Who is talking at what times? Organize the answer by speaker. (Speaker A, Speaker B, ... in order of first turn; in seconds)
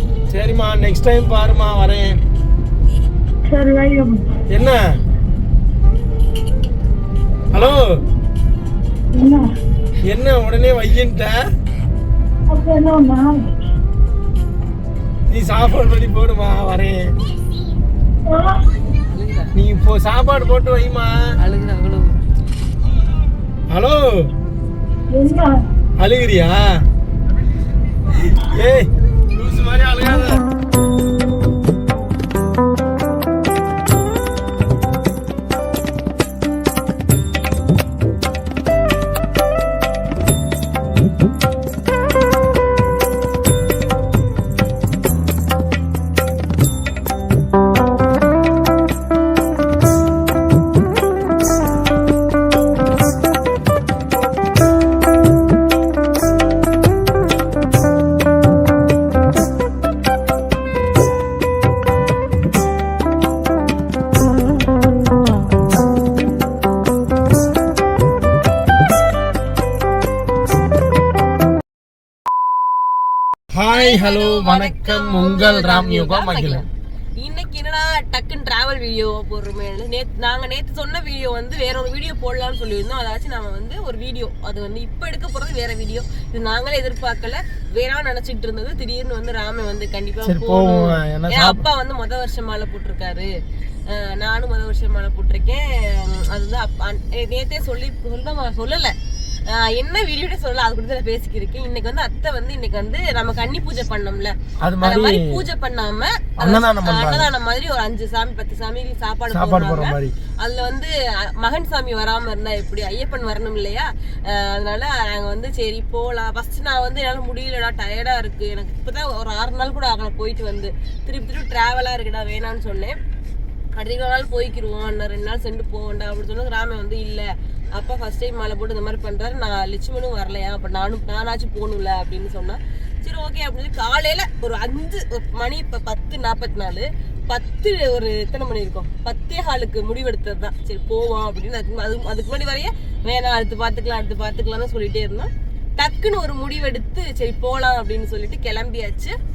Speaker A: 0.3-2.2, 4.5-4.8, 7.5-7.8, 10.1-11.4, 15.3-17.1, 19.5-21.1, 23.7-24.3, 26.0-26.6, 28.1-30.4, 73.5-76.6, 90.2-91.7, 104.6-105.4, 106.4-107.3, 109.3-110.1
Speaker B: 3.5-4.2, 9.1-9.4, 12.5-13.4, 18.3-18.6, 25.1-25.5
Speaker C: 21.4-22.1, 73.7-76.7, 77.2-93.3, 93.9-98.9, 99.5-123.0, 123.8-149.1